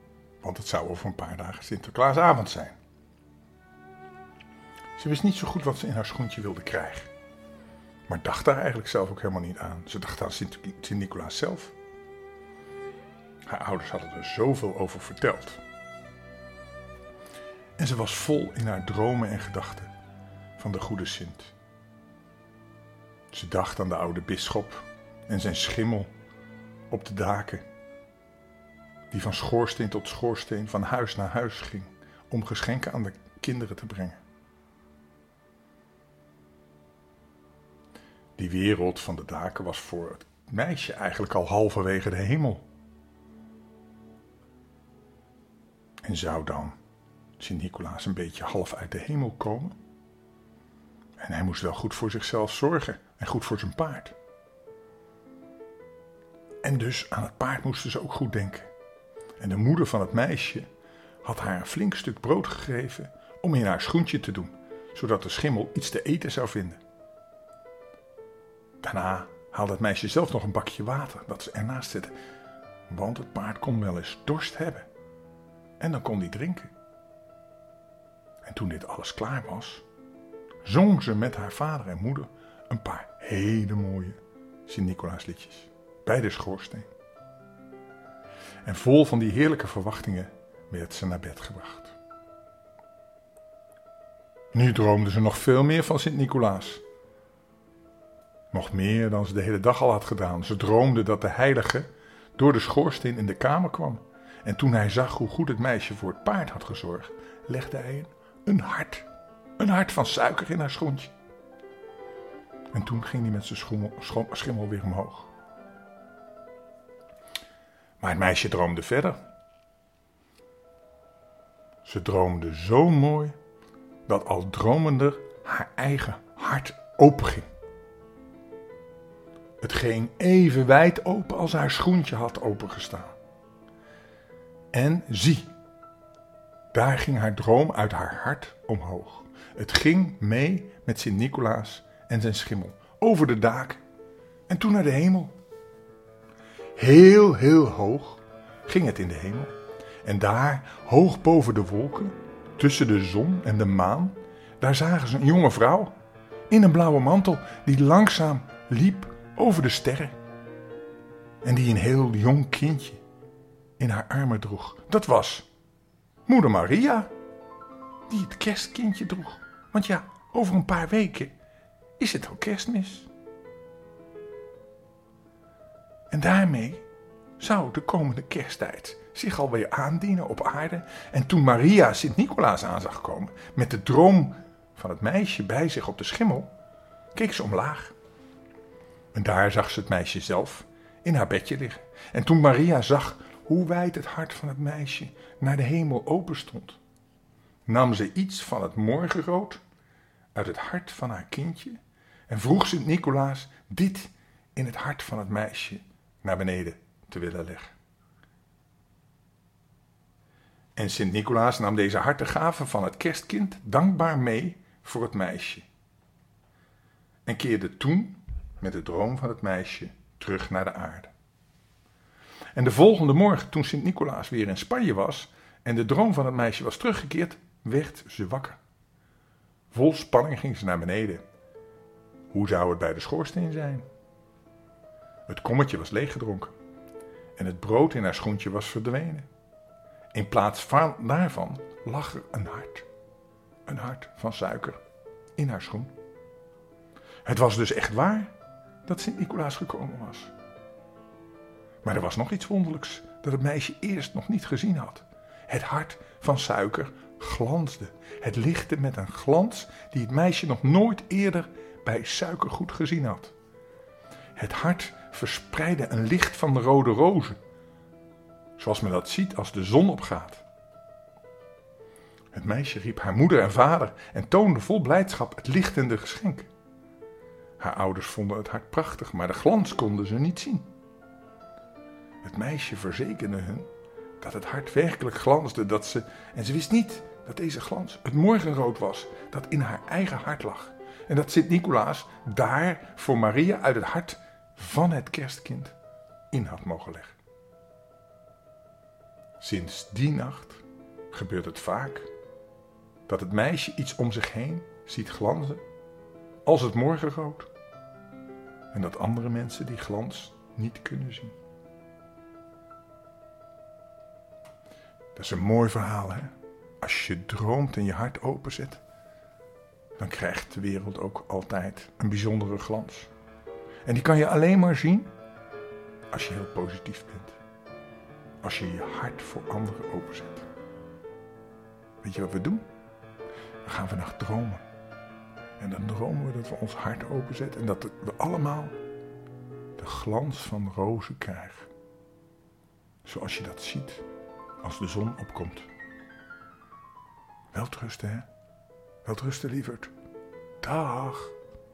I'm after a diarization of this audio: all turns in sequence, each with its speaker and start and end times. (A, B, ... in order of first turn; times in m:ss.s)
0:00.4-0:02.8 A
0:05.0-0:07.1 A
0:08.1-0:11.7 A
0:13.4-0:15.6 A
0:17.8-0:19.9 A
0:20.6-0:21.5 A
0:23.3-0:26.1 A
0:26.9-0:27.6 A
0:29.1-0:34.2 A
0:38.4-0:42.6 A
0:46.0-0:46.8 A
0:47.4-0:49.8 A
0:51.2-0:54.1 A
0:56.6-0:58.7 A
0:59.4-1:00.6 A
1:01.2-1:06.8 A
1:08.8-1:12.1 A
1:12.9-1:14.9 A
1:15.8-1:16.7 A
1:18.4-1:19.8 A
1:20.6-1:26.9 A
1:28.6-1:32.0 A
1:34.5-1:36.8 A
1:38.5-1:51.1 A
1:52.7-1:55.3 A
1:58.0-1:59.2 A
2:01.8-2:03.4 A
2:04.1-2:07.5 A
2:09.6-2:13.2 A
2:14.7-2:15.5 A
2:16.7-2:23.8 A
2:24.5-2:25.3 A
2:26.7-2:36.0 A
2:36.5-2:40.2 A
2:41.4-2:43.0 A
2:43.8-2:45.5 A
2:46.2-2:47.1 A
2:48.1-2:51.4 A
2:52.0-2:53.1 A
2:56.1-2:56.8 A
2:57.4-3:06.5 A
3:07.1-3:07.9 A
3:09.1-3:16.8 A
3:17.6-3:19.6 A
3:20.3-3:27.7 A
3:30.7-3:35.6 A
3:37.2-3:41.1 A
3:42.5-3:48.6 A
3:49.7-3:51.2 A
3:52.3-3:53.8 A
3:55.3-3:56.5 A
3:57.4-3:59.3 A
4:00.1-4:02.9 A
4:03.6-4:04.8 A
4:05.4-4:05.9 A
4:07.2-4:08.3 A
4:08.8-4:10.3 A
4:11.8-4:23.3 A
4:24.4-4:27.4 A
4:28.6-4:30.4 A
4:32.3-4:36.5 A
4:37.6-4:40.7 A
4:42.2-4:55.8 A
4:56.3-4:57.2 A
4:59.4-5:02.1 A
5:03.1-5:05.6 A
5:06.4-5:07.5 A
5:08.7-5:11.3 A
5:15.1-5:18.8 A
5:20.0-5:23.1 A
5:23.8-5:25.1 A
5:26.1-5:27.4 A
5:28.4-5:30.5 A
5:32.0-5:32.6 A
5:33.6-5:34.6 A
5:35.6-5:38.8 A
5:39.8-5:41.7 A
5:43.0-5:44.0 A
5:44.6-5:45.7 A
5:47.5-5:48.3 A
5:49.0-5:49.9 A
5:50.6-5:51.3 A